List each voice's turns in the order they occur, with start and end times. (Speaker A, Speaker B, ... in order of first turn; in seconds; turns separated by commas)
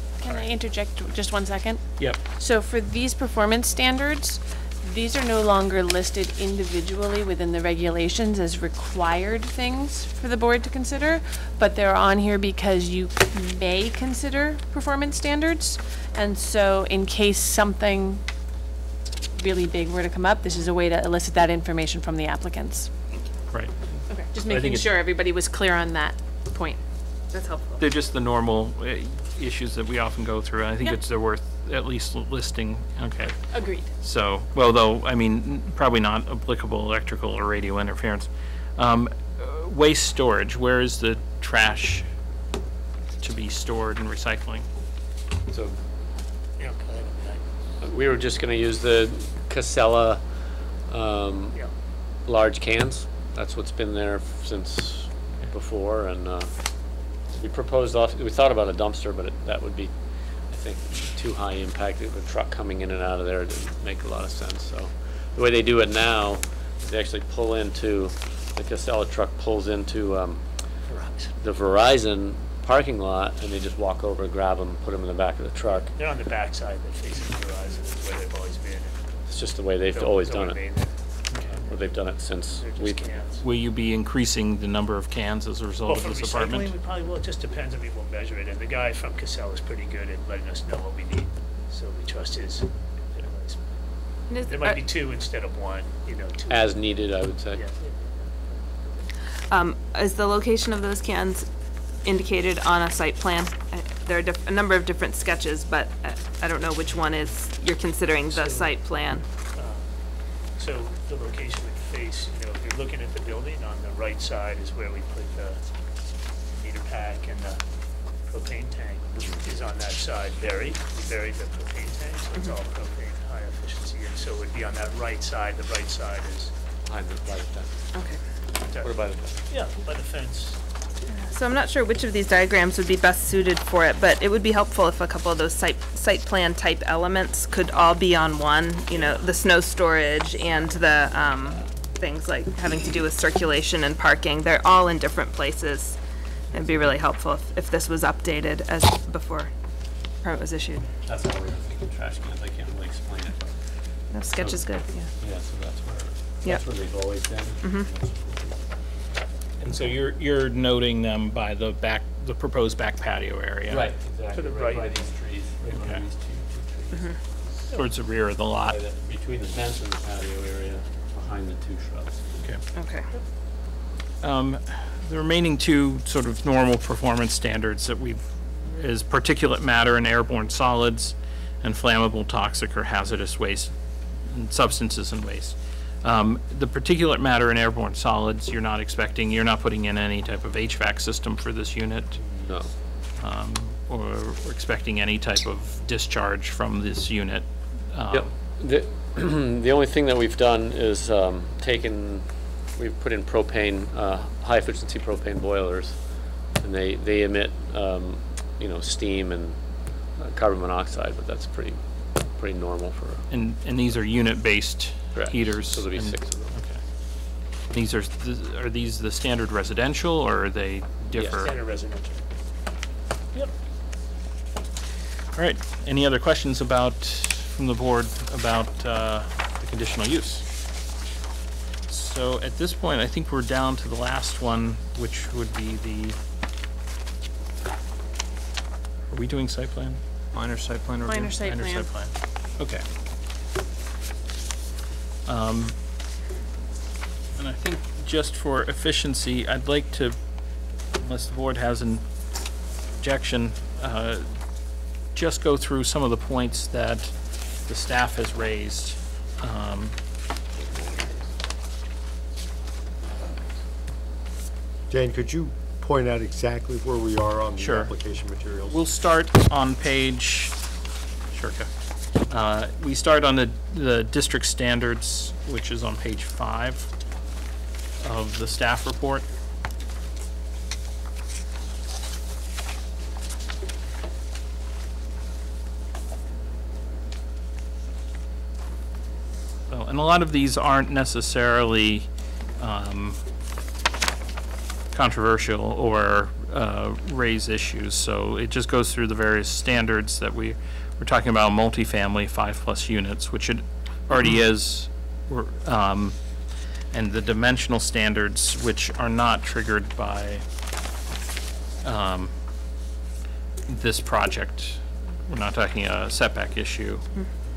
Speaker A: 0.1-18.2, Speaker A: 19.3-23.3, Speaker B: 23.5-24.9, Speaker A: 24.1-26.8, Speaker C: 27.3-27.8, Speaker B: 27.8-42.1, Speaker A: 33.5-33.9, Speaker B: 43.2-44.6, Speaker D: 45.5-45.8, Speaker E: 46.6-47.4, Speaker D: 47.8-51.6, Speaker D: 52.2-56.8, Speaker D: 57.3-70.4, Speaker E: 70.9-71.3, Speaker D: 71.4-75.9, Speaker E: 75.6-83.4, Speaker D: 79.3-80.8, Speaker D: 81.6-83.2, Speaker B: 83.4-86.7, Speaker E: 85.8-93.8, Speaker E: 94.4-99.1, Speaker D: 96.5-97.6, Speaker C: 99.5-101.5, Speaker C: 102.0-109.2, Speaker E: 108.3-108.7, Speaker E: 109.5-109.9, Speaker E: 110.5-115.6, Speaker E: 116.5-117.6, Speaker E: 118.3-126.5, Speaker D: 119.1-119.5, Speaker D: 126.8-127.8, Speaker C: 127.9-128.2, Speaker E: 128.7-130.6, Speaker D: 128.8-129.5, Speaker C: 131.2-146.0, Speaker C: 146.5-149.5, Speaker C: 150.2-150.9, Speaker D: 151.0-153.6, Speaker C: 154.1-155.1, Speaker D: 154.3-154.7, Speaker D: 155.2-158.6, Speaker C: 157.6-157.9, Speaker B: 159.6-163.9, Speaker D: 163.7-167.7, Speaker E: 164.3-164.9, Speaker B: 165.7-166.0, Speaker C: 166.9-167.2, Speaker B: 167.7-168.8, Speaker D: 168.7-172.3, Speaker C: 172.7-173.1, Speaker B: 174.2-192.2, Speaker D: 192.2-192.7, Speaker B: 193.2-198.3, Speaker D: 198.1-213.2, Speaker B: 213.3-216.8, Speaker D: 215.1-216.6, Speaker B: 217.7-221.5, Speaker D: 221.1-221.5, Speaker E: 221.4-222.2, Speaker B: 225.3-230.5, Speaker B: 231.9-236.2, Speaker B: 239.1-242.8, Speaker A: 241.0-241.9, Speaker B: 245.2-245.7, Speaker B: 247.4-250.2, Speaker B: 250.9-252.1, Speaker B: 253.0-254.3, Speaker B: 255.1-260.0, Speaker D: 260.6-261.2, Speaker F: 264.9-268.8, Speaker B: 267.6-267.9, Speaker B: 268.7-270.6, Speaker B: 271.3-271.7, Speaker B: 272.2-276.9, Speaker B: 278.0-279.2, Speaker B: 289.7-293.2, Speaker B: 294.9-306.2, Speaker B: 306.9-310.4, Speaker B: 311.8-312.4, Speaker B: 313.7-317.0